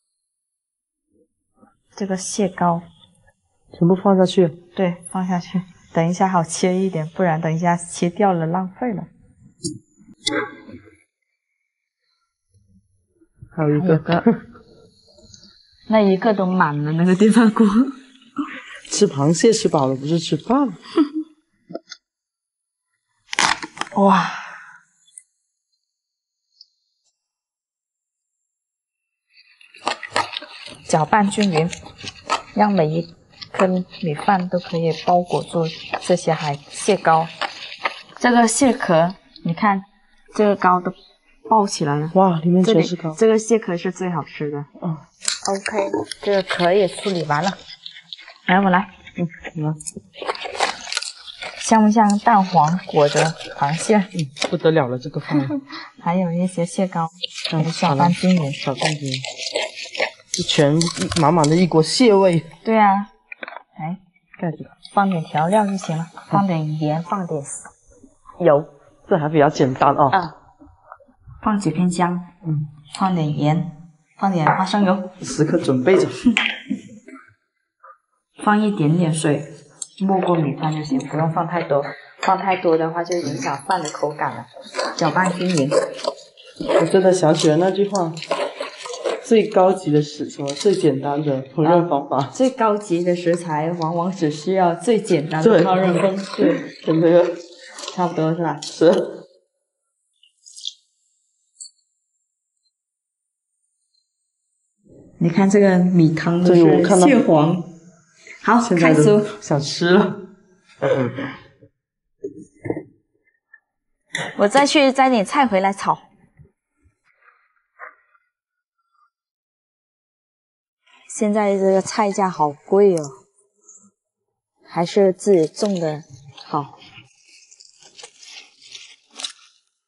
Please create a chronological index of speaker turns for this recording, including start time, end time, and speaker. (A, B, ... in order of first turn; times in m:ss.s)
0:02.0-0:02.8 A
0:03.7-0:04.6 B
0:04.8-0:09.1 A
0:13.5-0:14.4 B
0:13.7-0:14.2 A
0:15.9-0:17.9 A
0:18.9-0:20.8 B
0:23.9-0:24.5 A
0:30.9-0:31.7 A
0:32.5-0:37.3 A
0:38.2-0:40.9 A
0:41.5-0:44.7 A
0:42.1-0:43.2 B
0:45.4-0:47.6 A
0:48.5-0:48.9 A
0:49.2-0:49.8 B
0:51.6-0:54.1 A
0:54.1-0:55.6 B
0:56.0-0:58.6 A
0:57.5-0:59.2 B
1:00.3-1:02.5 B
1:02.6-1:03.1 A
1:04.4-1:04.7 B
1:04.9-1:07.7 A
1:08.4-1:08.7 A
1:09.1-1:10.2 B
1:11.4-1:12.3 A
1:12.9-1:15.1 A
1:15.2-1:16.2 B
1:18.4-1:25.8 A
1:26.7-1:28.2 B
1:29.2-1:32.3 B
1:31.6-1:36.6 A
1:35.4-1:37.4 B
1:37.9-1:38.6 A
1:38.7-1:39.2 B
1:45.2-1:47.7 A
1:46.4-1:47.2 B
1:48.4-1:49.3 A
1:48.6-1:50.2 B
1:50.8-1:51.3 B
1:54.4-1:56.0 A
2:01.1-2:03.2 A
2:04.7-2:06.7 A